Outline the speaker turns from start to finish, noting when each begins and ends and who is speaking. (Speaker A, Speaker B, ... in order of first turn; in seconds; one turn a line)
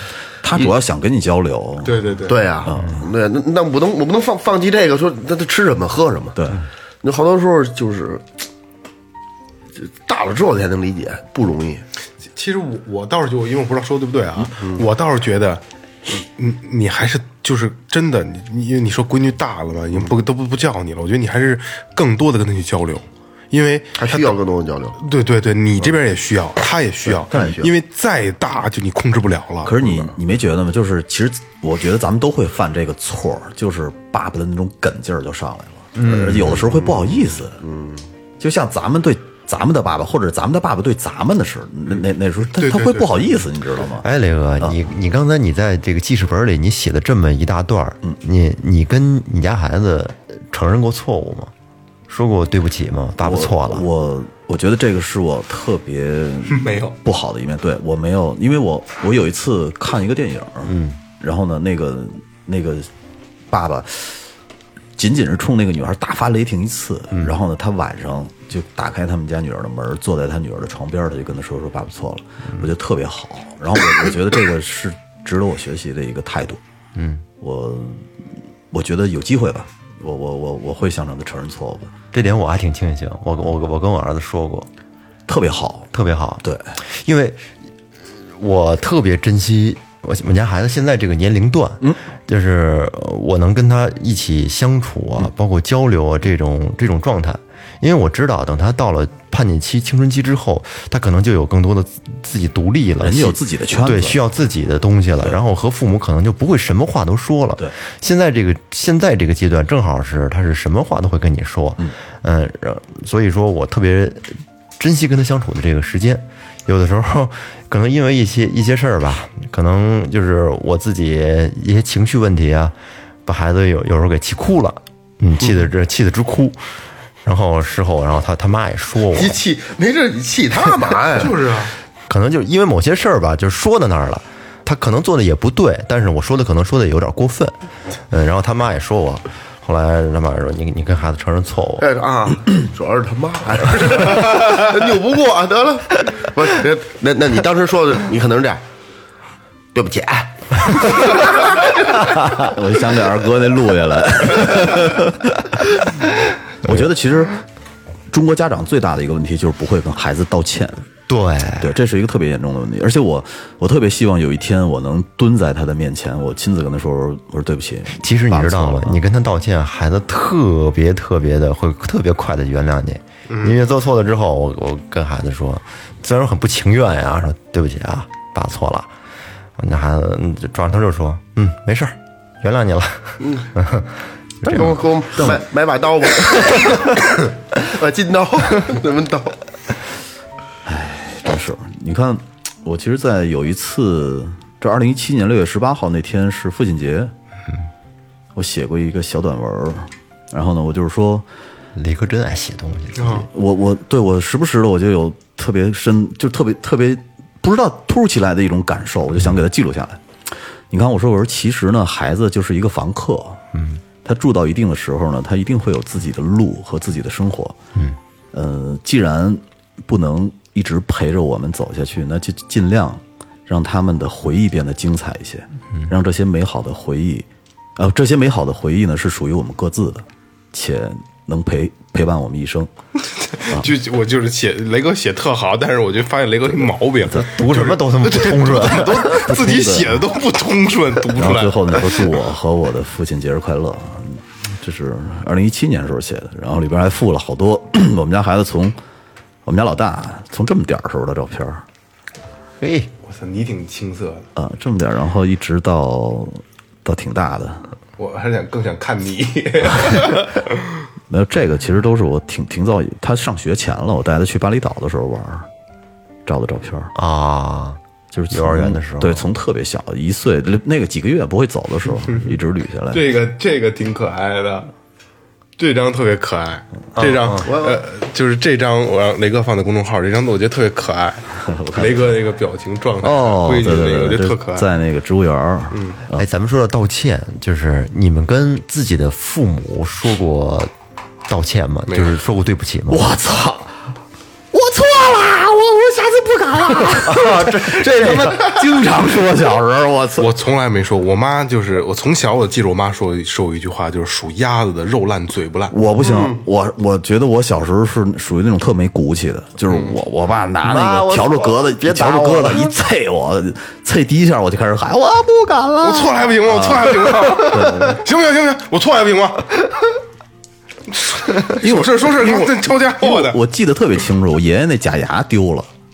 Speaker A: 0.4-2.1
Speaker B: 1.8-2.4
Speaker C: 2.3-6.3
Speaker A: 2.6-3.0
Speaker A: 6.3-6.6
Speaker C: 7.0-8.3
Speaker C: 9.8-11.8
Speaker B: 12.3-24.4
Speaker C: 14.6-14.8
Speaker C: 23.9-25.0
Speaker B: 25.0-30.0
Speaker A: 27.3-27.6
Speaker C: 27.3-27.7
Speaker A: 29.6-37.6
Speaker D: 36.0-36.6
Speaker C: 36.1-38.0
Speaker A: 38.4-44.1
Speaker B: 42.5-43.4
Speaker D: 44.0-51.5
Speaker D: 52.1-53.8
Speaker A: 53.2-62.9
Speaker B: 56.5-56.9
Speaker D: 60.7-61.0
Speaker A: 63.5-64.2
Speaker A: 65.0-76.6
Speaker D: 76.9-77.2
Speaker A: 77.4-78.1
Speaker A: 78.7-81.9
Speaker D: 82.1-84.7
Speaker A: 85.3-85.9
Speaker D: 85.9-87.4
Speaker A: 86.4-86.7
Speaker D: 88.3-122.7
Speaker A: 103.0-104.2
Speaker D: 123.2-126.6
Speaker D: 127.2-129.4
Speaker C: 129.1-131.3
Speaker B: 131.2-131.7
Speaker D: 132.1-137.5
Speaker D: 138.1-141.9
Speaker C: 141.8-148.6
Speaker C: 149.7-151.5
Speaker A: 152.3-155.4
Speaker A: 156.6-157.4
Speaker A: 158.1-160.8
Speaker D: 161.1-161.7
Speaker A: 161.6-169.0
Speaker D: 168.0-178.9
Speaker B: 173.3-173.6
Speaker D: 179.6-183.9
Speaker C: 183.2-183.5
Speaker D: 184.4-185.4
Speaker C: 184.5-187.0
Speaker C: 187.6-189.4
Speaker A: 190.6-197.1
Speaker A: 198.3-201.2
Speaker D: 201.7-203.3
Speaker B: 203.0-203.2
Speaker A: 203.2-210.0
Speaker A: 210.7-213.4
Speaker D: 213.5-213.8
Speaker A: 214.0-217.6
Speaker A: 218.3-232.7
Speaker B: 233.3-242.2
Speaker D: 237.2-239.4
Speaker A: 239.0-240.0
Speaker A: 241.1-248.8
Speaker A: 249.4-251.6
Speaker D: 252.6-252.9
Speaker B: 253.0-254.3
Speaker A: 254.3-257.7
Speaker B: 258.0-260.6
Speaker A: 261.1-265.5
Speaker A: 266.2-266.9
Speaker D: 266.9-267.8
Speaker A: 268.1-273.1
Speaker D: 268.3-269.3
Speaker B: 272.9-274.7
Speaker B: 275.6-284.7
Speaker D: 277.0-277.4
Speaker C: 277.4-277.8
Speaker A: 281.4-282.1
Speaker A: 283.0-286.2
Speaker B: 285.7-286.0
Speaker D: 286.1-290.7
Speaker D: 291.3-293.1
Speaker B: 291.9-292.2
Speaker A: 292.9-293.8
Speaker A: 294.5-300.3
Speaker D: 296.9-298.6
Speaker B: 300.2-305.7
Speaker A: 305.7-318.0
Speaker C: 306.0-306.4
Speaker B: 309.7-310.0
Speaker D: 310.6-312.7
Speaker B: 315.8-319.6
Speaker B: 321.0-323.4
Speaker A: 321.6-325.7